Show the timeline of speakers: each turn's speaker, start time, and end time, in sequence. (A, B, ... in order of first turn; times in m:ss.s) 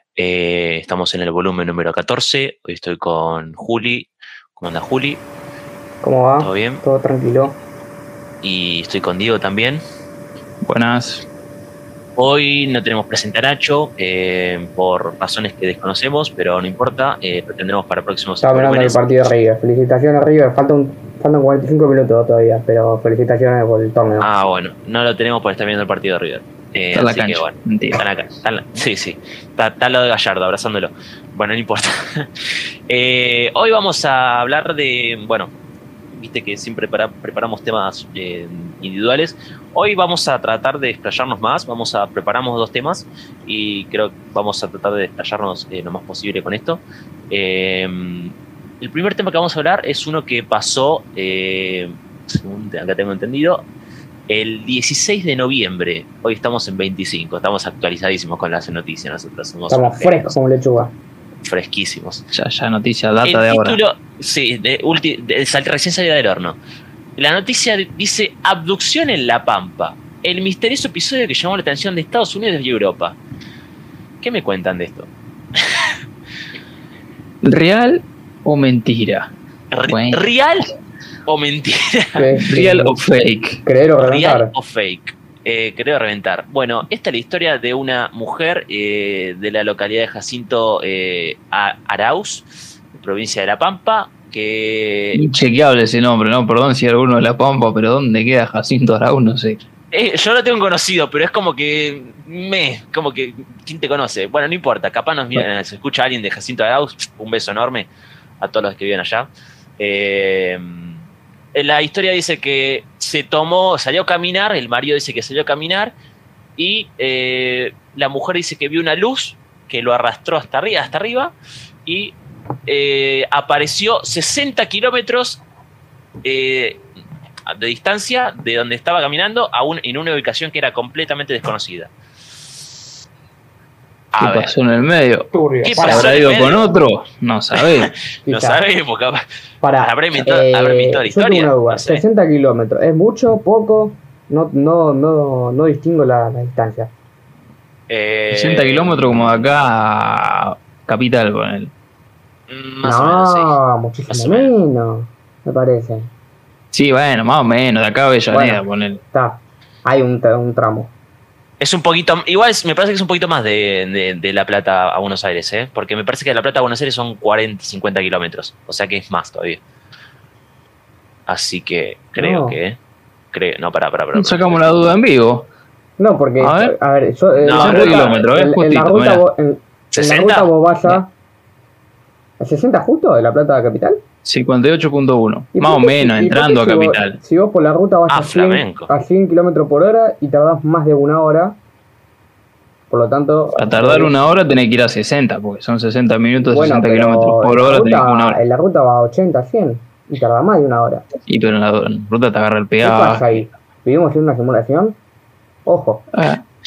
0:00.2-0:05.2 A
0:06.0-0:07.6 B
0:06.4-0:06.8 A
0:08.4-0:09.8 A
0:10.6-0:11.2 C
0:12.2-0:19.0 A
0:18.4-0:24.3 B
0:24.2-0:32.3 A
0:26.9-0:28.0 C
0:32.9-0:35.5 A
0:36.1-0:53.6 A
0:54.3-1:00.3 A
0:59.7-1:00.9 B
1:01.4-1:02.2 A
1:02.3-1:03.8 C
1:03.2-1:06.6 A
1:07.2-1:13.2 A
1:14.2-1:15.9 A
1:17.4-1:19.3 C
1:19.7-1:20.7 A
1:19.9-1:20.2 C
1:21.3-1:22.2 A
1:22.1-1:23.0 B
1:22.4-1:23.6 C
1:23.6-1:24.5 B
1:24.0-1:35.2 A
1:35.1-1:39.6 C
1:39.9-1:47.9 A
1:48.4-1:51.0 A
1:51.5-1:55.9 A
1:56.6-2:01.3 A
2:01.8-2:02.2 A
2:02.7-2:05.4 A
2:06.2-2:06.8 A
2:07.5-2:11.9 A
2:14.1-2:14.5 A
2:14.2-2:17.9 C
2:15.3-2:16.2 B
2:15.6-2:16.6 A
2:17.8-2:19.2 A
2:18.2-2:18.6 B
2:19.6-2:26.9 B
2:19.8-2:22.0 A
2:27.9-2:29.4 A
2:28.3-2:31.7 C
2:32.5-2:33.5 A
2:32.8-2:36.1 B
2:34.1-2:34.5 A
2:36.7-2:39.0 C
2:38.3-2:40.9 B
2:41.6-2:49.6 A
2:51.3-2:52.8 A
2:52.2-2:52.6 B
2:53.3-2:54.7 A
2:54.1-2:55.5 C
2:56.0-3:01.1 B
2:56.4-2:56.7 C
2:57.4-2:58.2 A
2:57.5-2:59.2 C
2:59.9-3:00.5 A
3:02.4-3:04.0 B
3:04.2-3:07.2 C
3:05.5-3:11.6 B
3:08.1-3:08.9 A
3:12.9-3:14.2 B
3:13.6-3:18.4 C
3:16.4-3:21.0 B
3:21.3-3:23.5 C
3:22.8-3:25.0 B
3:25.6-3:26.1 B
3:26.1-3:26.4 C